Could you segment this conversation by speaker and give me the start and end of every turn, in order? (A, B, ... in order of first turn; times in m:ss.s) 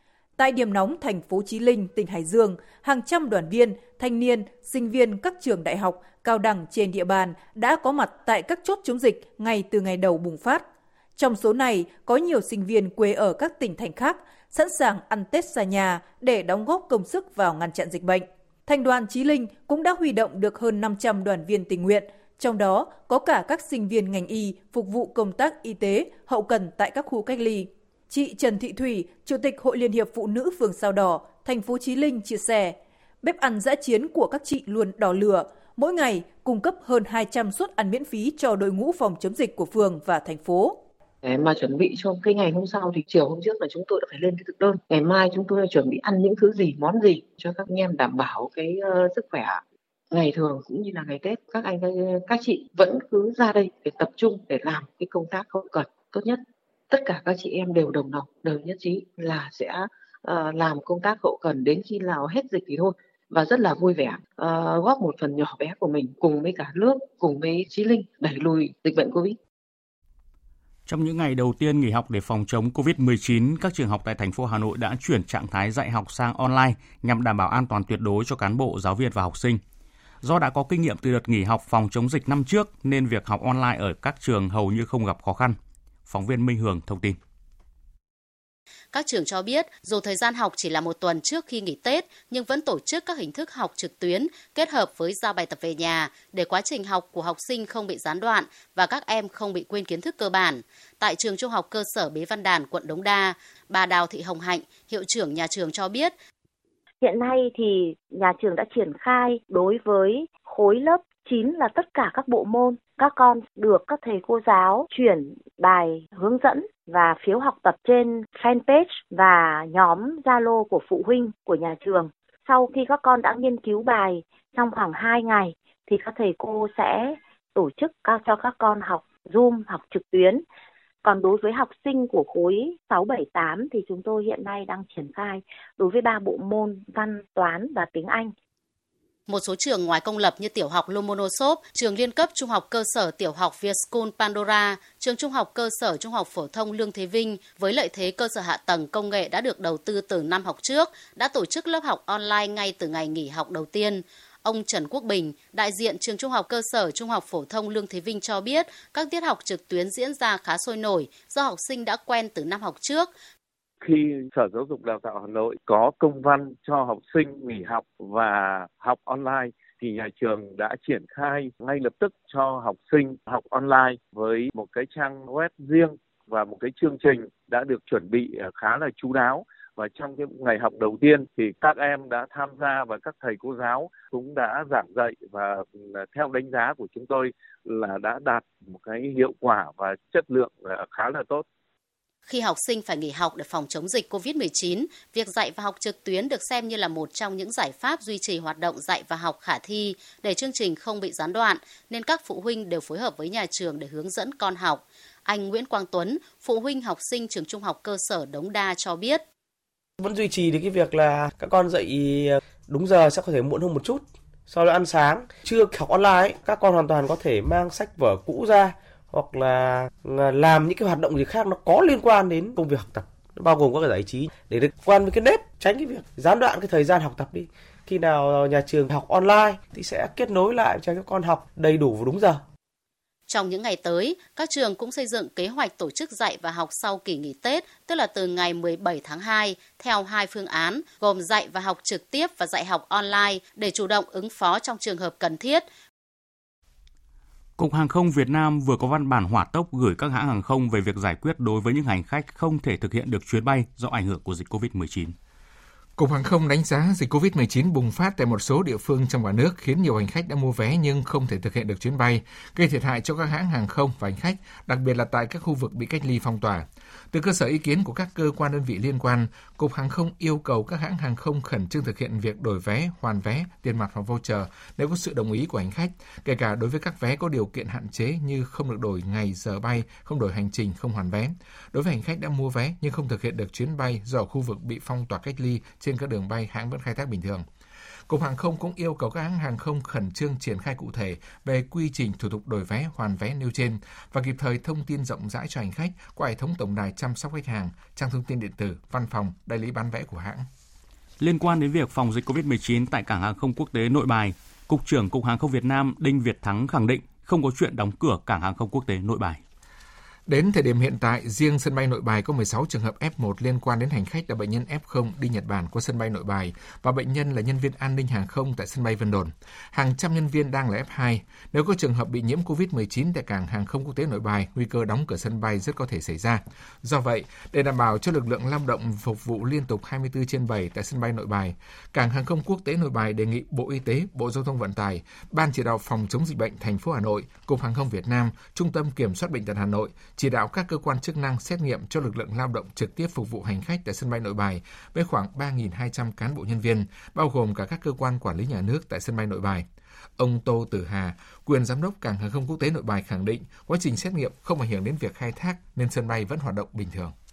0:00.4-0:40.8 A
0:41.2-1:09.4 B
1:10.9-1:19.6 C
1:20.2-1:27.2 C
1:28.9-1:46.1 D
1:47.0-2:10.4 E
2:11.0-2:18.3 E
2:19.3-2:43.1 D
2:43.8-3:11.4 F
3:12.3-3:29.2 D
3:30.0-3:52.4 G
3:53.3-4:05.6 D
4:07.6-4:15.1 C
4:16.0-4:47.4 H
4:48.1-5:00.4 H
5:01.2-5:09.4 C
5:10.3-5:49.7 H
5:50.2-5:57.1 H